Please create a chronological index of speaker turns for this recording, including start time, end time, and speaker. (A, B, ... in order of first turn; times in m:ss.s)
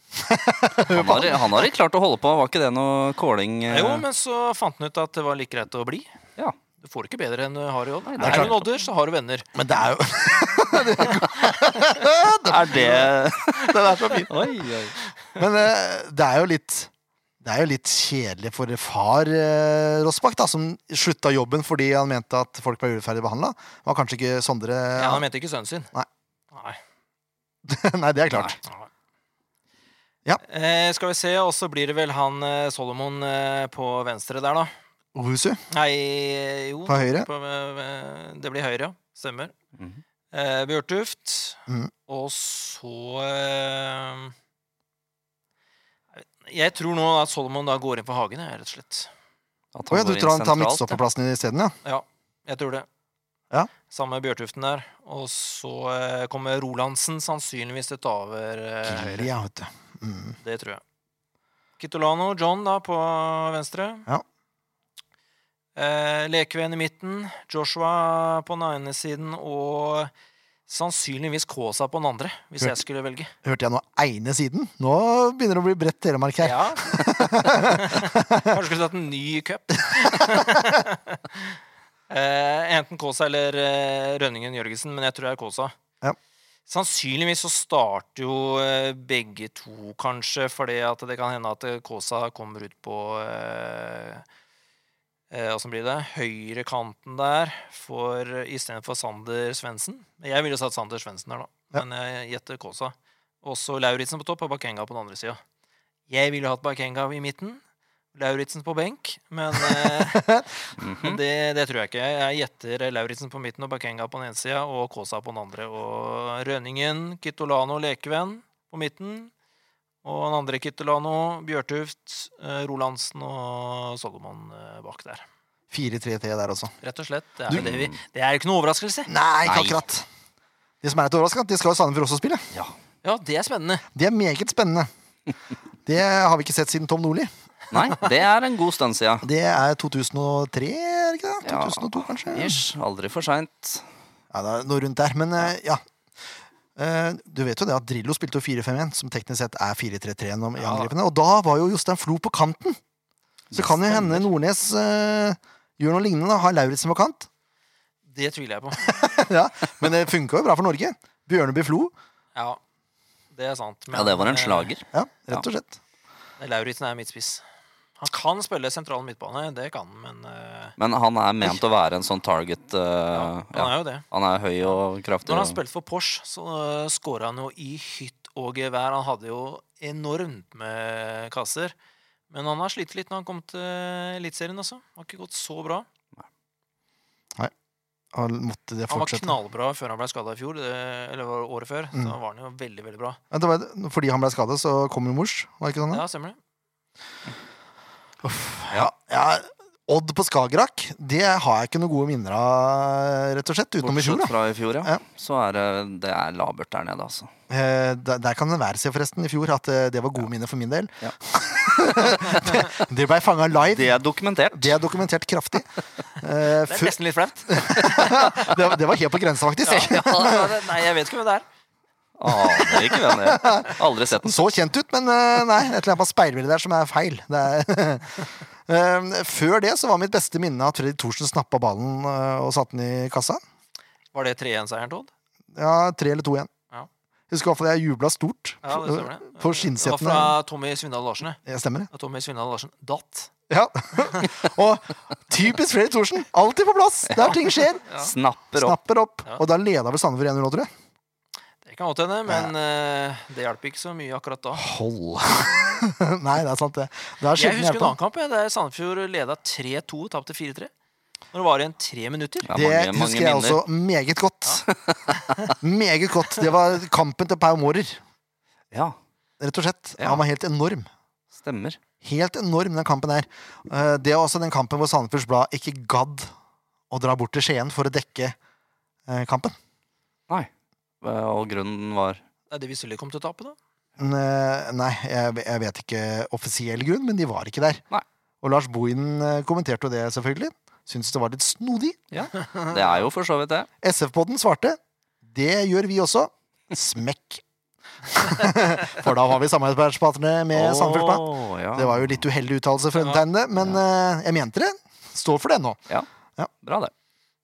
0:00.2-0:01.7 A
0:00.8-0:04.0 B
0:03.7-0:06.1 C
0:06.8-0:09.5 C
0:08.1-0:08.6 B
0:08.2-0:08.5 A
0:09.5-0:14.4 A
0:12.4-0:15.0 B
0:15.3-0:16.9 A
0:17.4-0:25.2 A
0:25.0-0:25.9 C
0:26.5-0:26.8 C
0:27.6-0:28.6 A
0:28.6-0:28.9 C
0:30.4-0:34.7 C
0:35.1-0:35.6 A
0:35.7-0:39.5 C
0:36.9-0:37.3 A
0:40.3-0:44.3 C
0:41.7-0:41.9 A
0:46.2-0:49.1 C
0:49.7-0:51.0 B
0:49.9-0:51.7 A
0:51.8-0:52.9 C
0:53.9-0:59.3 C
0:58.8-1:00.4 A
1:00.4-1:00.8 C
1:01.8-1:04.1 C
1:05.8-1:10.1 C
1:10.7-1:13.3 C
1:13.4-1:18.6 A
1:16.4-1:21.5 C
1:20.0-1:20.6 A
1:22.1-1:25.7 C
1:26.7-1:34.2 C
1:35.3-1:45.4 C
1:46.1-1:47.6 C
1:48.1-1:50.4 C
1:49.7-1:50.5 A
1:50.8-1:51.2 B
1:50.9-1:59.3 C
2:00.0-2:05.2 C
2:05.7-2:06.7 A
2:06.8-2:09.1 C
2:07.5-2:07.9 B
2:09.1-2:10.1 A
2:09.4-2:09.8 B
2:10.8-2:12.5 A
2:13.0-2:13.8 C
2:13.9-2:14.9 A
2:15.8-2:18.0 A
2:17.7-2:19.3 B
2:19.2-2:22.6 A
2:21.4-2:23.8 B
2:24.3-2:25.8 A
2:26.8-2:32.8 A
2:30.6-2:30.9 C
2:33.5-2:34.3 B
2:33.5-2:37.3 A
2:38.1-2:39.2 C
2:38.9-2:41.9 A
2:42.3-2:42.6 C
2:43.3-2:44.7 C
2:43.9-2:45.4 B
2:44.9-2:45.8 A
2:46.4-2:47.4 C
2:48.0-2:50.7 C
2:50.8-2:55.6 B
2:53.1-2:54.0 C
2:55.2-3:01.7 C
3:02.3-3:05.9 C
3:08.1-3:09.4 A
3:08.9-3:13.2 C
3:13.3-3:16.0 A
3:15.9-3:16.4 C
3:18.2-3:25.0 A
3:23.8-3:27.3 B
3:27.5-3:34.0 A
3:32.1-3:32.6 B
3:33.7-3:34.8 B
3:34.5-3:37.0 A
3:36.5-3:38.5 C
3:37.5-3:40.6 A
3:39.6-3:41.4 C
3:42.2-3:44.5 B
3:42.5-3:53.4 A
3:54.1-3:55.1 C
3:55.5-3:56.5 A
3:57.3-4:00.4 A
3:58.6-4:01.4 C
4:01.4-4:01.9 A
4:01.9-4:03.3 C
4:03.5-4:07.8 A
4:07.1-4:08.8 B
4:08.6-4:10.7 A
4:11.6-4:14.7 C
4:12.3-4:12.5 A
4:14.5-4:18.0 A
4:17.3-4:20.7 C
4:21.3-4:22.5 C
4:22.4-4:23.6 B
4:22.5-4:24.6 A
4:24.6-4:25.5 B
4:25.6-4:28.0 A
4:29.4-4:30.9 A
4:30.0-4:30.2 B
4:31.3-4:31.8 B
4:32.0-4:36.3 A
4:36.9-4:38.4 A
4:39.1-4:39.5 A
4:41.0-4:42.2 B
4:42.5-4:43.6 C
4:44.0-4:47.8 A
4:48.4-4:52.0 A
4:52.1-4:53.7 B
4:53.8-4:57.4 A
4:58.0-5:05.8 A
5:00.5-5:02.1 B
5:02.9-5:03.2 C
5:06.6-5:06.9 B